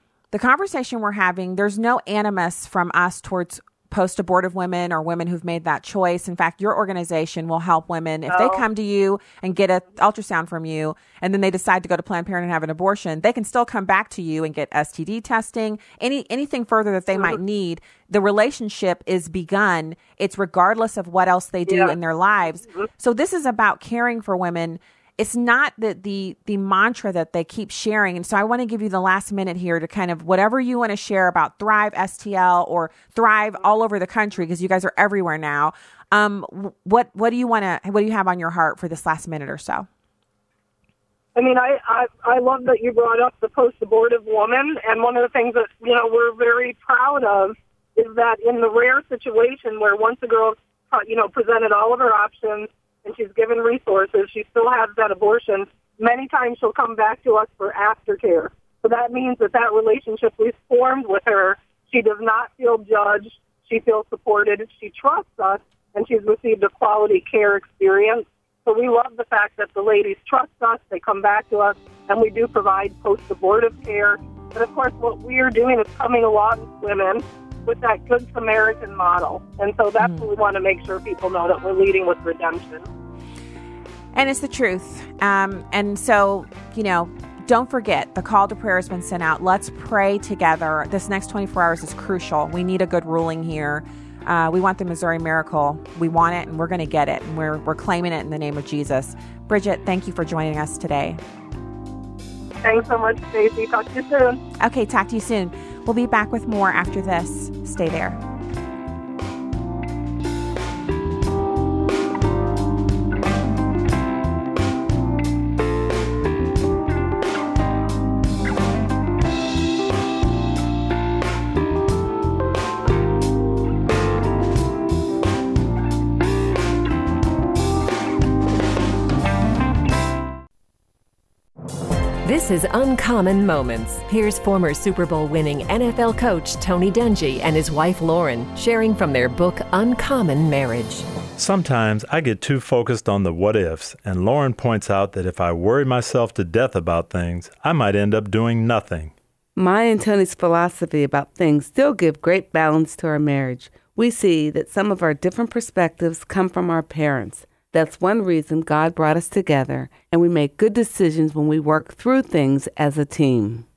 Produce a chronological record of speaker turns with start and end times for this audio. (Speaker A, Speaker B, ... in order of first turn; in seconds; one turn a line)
Speaker A: 0.3-39.9
Speaker B: 8.3-8.6
Speaker B: 17.1-17.4
Speaker B: 21.7-22.0
Speaker B: 22.6-22.9
Speaker B: 41.4-82.9
Speaker A: 80.0-80.3
Speaker A: 84.1-101.2
Speaker B: 102.6-104.4
Speaker A: 104.6-108.2
Speaker C: 132.2-141.0
Speaker D: 141.4-149.1
Speaker E: 149.6-163.7